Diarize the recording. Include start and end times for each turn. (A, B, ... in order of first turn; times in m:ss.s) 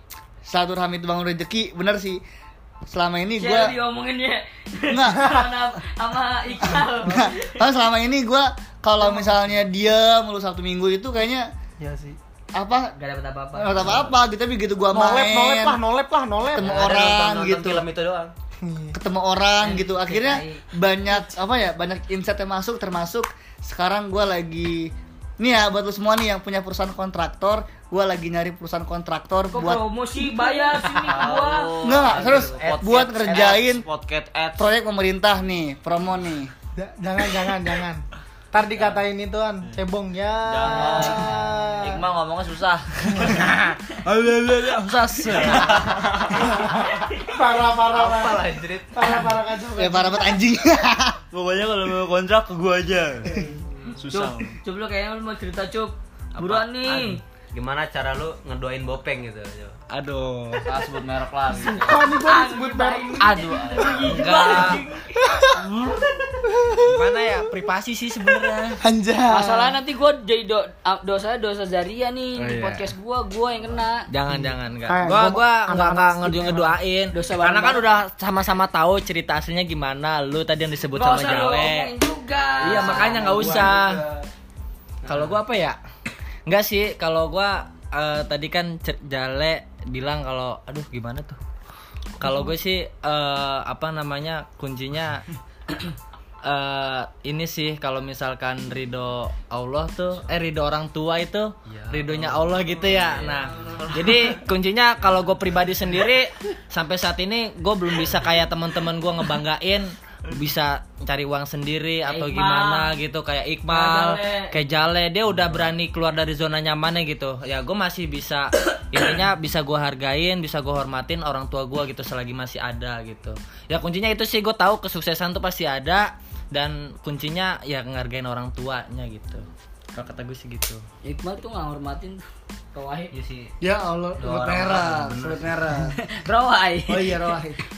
0:00.4-0:02.2 A
0:02.9-0:03.8 A
0:03.4-0:07.6 B
0:04.9-0:05.4 A
0:07.1-0:11.5 A
0:11.8-0:12.2 C
0:12.6-0:12.9 A
0:13.0-0:14.1 B
0:13.5-0:15.8 A
0:14.9-0:16.7 C
0:16.5-0:17.9 A
0:16.6-0:18.3 D
0:18.6-0:19.0 C
0:18.9-0:29.8 A
0:19.6-0:20.6 B
0:29.5-0:31.8 B
0:30.5-0:31.0 C
0:31.0-0:31.4 D
0:31.1-0:34.7 E
0:31.8-0:33.8 A
0:32.0-0:32.8 D
0:34.6-0:36.5 A
0:36.8-0:42.1 C
0:40.5-0:46.9 E
0:43.4-0:43.7 F
0:44.7-0:45.6 F
0:45.6-0:46.0 D
0:46.4-0:50.4 C
0:47.9-0:49.0 D
0:49.8-0:51.2 A
0:51.3-0:53.4 E
0:53.3-0:54.0 C
0:54.0-0:54.6 E
0:54.1-0:57.2 B
0:56.4-0:56.6 F
0:57.5-0:59.8 D
0:59.9-1:00.7 F
1:00.6-1:02.1 E
1:01.5-1:04.2 C
1:02.2-1:05.1 B
1:03.3-1:04.8 F
1:03.4-1:04.8 E
1:05.2-1:05.6 C
1:06.6-1:07.1 C
1:06.9-1:08.8 F
1:08.8-1:09.8 C
1:09.3-1:14.0 B
1:12.4-1:12.9 F
1:14.1-1:21.9 F
1:14.3-1:16.8 C
1:17.1-1:17.9 B
1:20.9-1:23.7 B
1:22.6-1:24.1 F
1:22.8-1:24.1 C
1:25.0-1:25.4 D
1:25.0-1:25.8 F
1:26.5-1:31.4 F
1:32.2-1:35.2 F
1:32.2-1:32.5 C
1:36.4-2:10.8 F
1:41.7-1:42.6 D
1:43.5-1:44.4 E
1:52.1-1:53.0 B
1:53.7-1:54.6 B
2:11.0-2:12.2 B
2:12.7-2:13.1 B
2:13.1-2:13.5 D
2:13.6-2:16.0 A
2:14.2-2:15.7 D
2:16.0-2:17.3 B
2:16.9-2:17.6 A